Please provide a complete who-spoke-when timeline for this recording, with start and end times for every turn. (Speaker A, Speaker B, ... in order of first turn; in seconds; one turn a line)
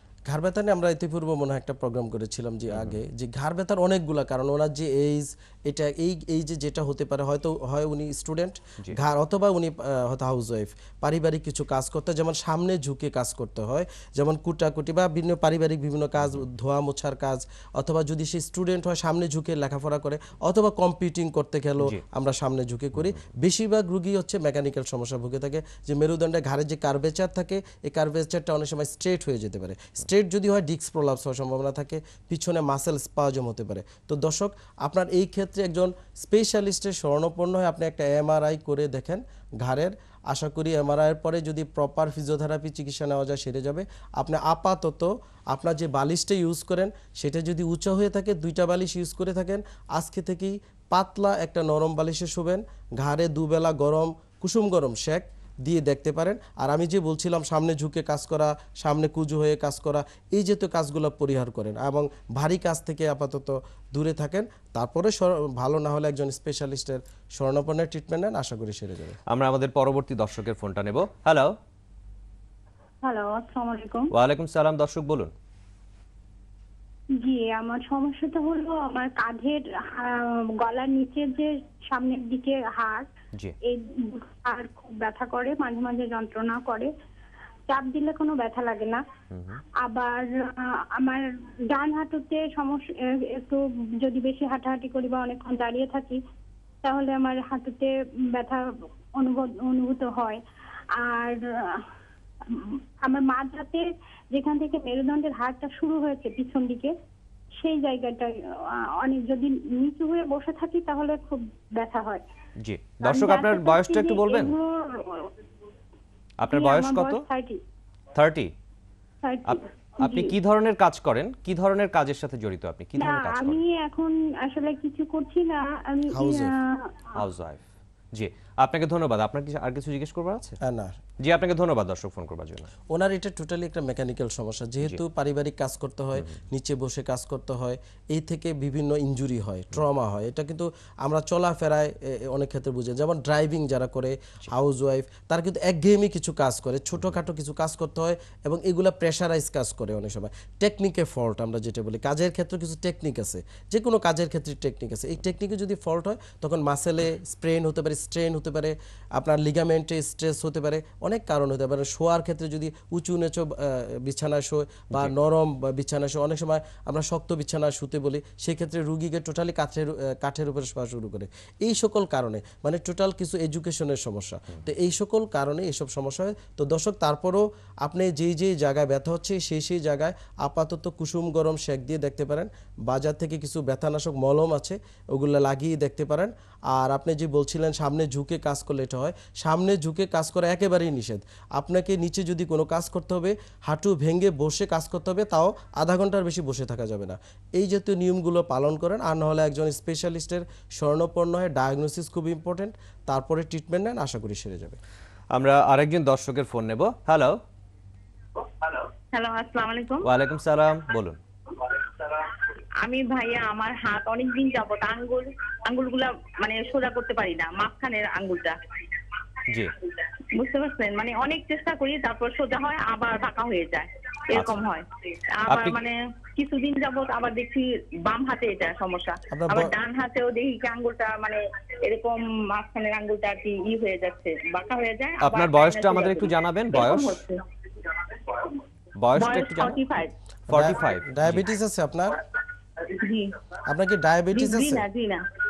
Speaker A: 0.3-69.2
Speaker B: 2.7-3.0
Speaker B: 69.3-71.5
Speaker C: 73.0-74.1
Speaker B: 74.1-75.3
Speaker C: 77.2-83.1
Speaker C: 83.6-86.9
Speaker C: 87.7-89.0
Speaker B: 89.3-89.6
Speaker C: 89.8-90.3
Speaker C: 91.0-96.2
Speaker C: 96.8-98.7
Speaker C: 99.2-100.4
Speaker C: 101.0-101.8
Speaker C: 102.5-106.9
Speaker C: 107.6-108.3
Speaker C: 109.0-112.2
Speaker B: 112.6-114.5
Speaker C: 113.0-115.3
Speaker B: 116.4-117.2
Speaker C: 116.4-117.6
Speaker B: 118.1-118.5
Speaker C: 119.2-120.3
Speaker B: 119.5-123.6
Speaker C: 123.0-127.0
Speaker A: 126.1-126.5
Speaker B: 127.2-130.6
Speaker A: 130.6-130.9
Speaker B: 131.2-132.7
Speaker A: 132.9-204.8
Speaker B: 205.3-207.4
Speaker D: 209.1-210.1
Speaker B: 210.0-211.2
Speaker D: 212.8-218.6
Speaker B: 219.5-219.7
Speaker D: 220.3-237.4
Speaker B: 224.3-224.6
Speaker B: 225.5-225.8
Speaker A: 229.3-229.8
Speaker B: 235.2-237.2
Speaker D: 238.1-238.5
Speaker B: 239.0-239.8
Speaker D: 239.2-240.1
Speaker B: 240.5-241.5
Speaker A: 240.5-242.2
Speaker D: 242.9-243.3
Speaker A: 243.7-244.9
Speaker D: 244.3-245.2